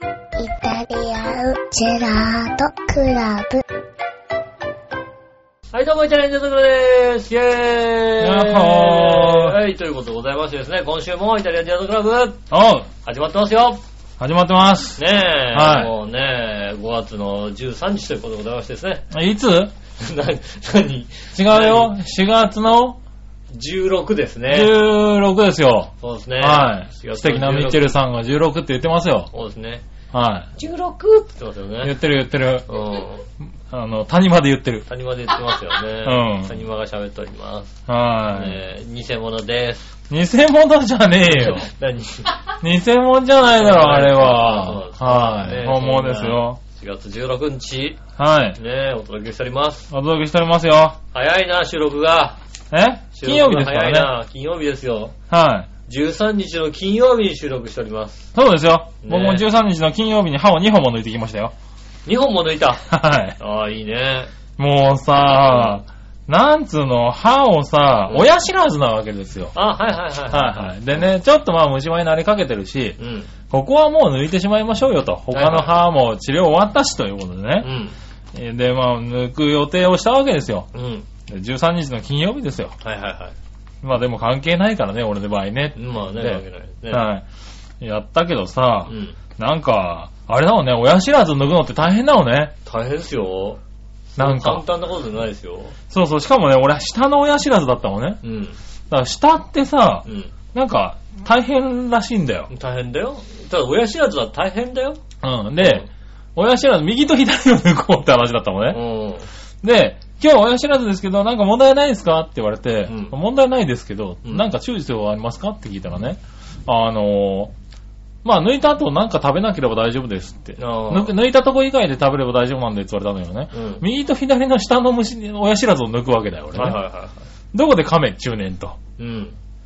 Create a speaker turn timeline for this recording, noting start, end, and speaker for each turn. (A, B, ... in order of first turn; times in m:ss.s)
0:00.4-0:03.6 A
0:05.7-0:12.4 B
0:08.2-0:09.6 C
0:12.5-0:12.9 C
0:13.0-0:13.8 B
0:14.2-0:15.0 C
0:15.0-0:19.0 B
0:15.5-0:15.9 C
0:19.1-0:19.7 C
0:20.0-0:21.9 B
0:21.3-0:23.0 C
0:23.5-0:24.7 B
0:24.5-0:29.3 C
0:26.0-0:28.0 B
0:29.3-0:29.8 B
0:30.1-0:30.5 C
0:30.6-0:31.9 B
0:31.8-0:32.6 C
0:32.7-0:33.2 B
0:33.7-0:34.8 C
0:34.9-0:37.8 B
0:36.0-0:36.6 C
0:37.9-0:38.6 C
0:38.3-0:39.9 B
0:40.1-0:41.7 C
0:41.3-0:42.3 B
0:42.6-0:46.6 C
0:43.5-0:48.0 B
0:48.2-0:48.6 C
0:48.6-0:49.9 B
0:49.9-0:51.0 C
0:51.1-0:52.4 B
0:52.7-0:54.1 C
0:53.1-0:55.1 B
0:55.3-0:55.7 C
0:55.9-0:58.3 B
0:58.3-1:01.5 C
0:59.0-0:59.4 B
1:02.0-1:02.8 B
1:02.9-1:03.4 C
1:03.4-1:04.3 B
1:04.6-1:09.5 C
1:05.5-1:05.8 B
1:09.5-1:10.8 B
1:10.3-1:13.0 C
1:13.0-1:13.3 B
1:13.5-1:17.7 C
1:15.3-1:15.7 B
1:17.6-1:18.0 B
1:18.3-1:20.7 C
1:20.7-1:21.0 B
1:21.3-1:22.7 C
1:22.8-1:23.3 B
1:23.8-1:27.2 C
1:25.8-1:27.1 B
1:27.8-1:32.5 C
1:28.9-1:29.2 B
1:32.6-1:33.6 B
1:34.2-1:35.7 B
1:34.2-1:34.6 C
1:35.9-1:38.2 C
1:38.2-1:38.6 B
1:38.9-1:42.5 C
1:40.0-1:40.3 B
1:42.5-1:45.0 B
1:45.2-1:48.8 C
1:45.6-1:45.9 B
1:48.7-1:49.3 B
1:49.6-1:57.5 C
1:52.8-1:53.1 B
1:58.2-2:06.8 C
2:00.6-2:01.1 B
2:03.5-2:03.8 B
2:06.5-2:07.2 B
2:07.5-2:08.8 C
2:09.0-2:09.4 B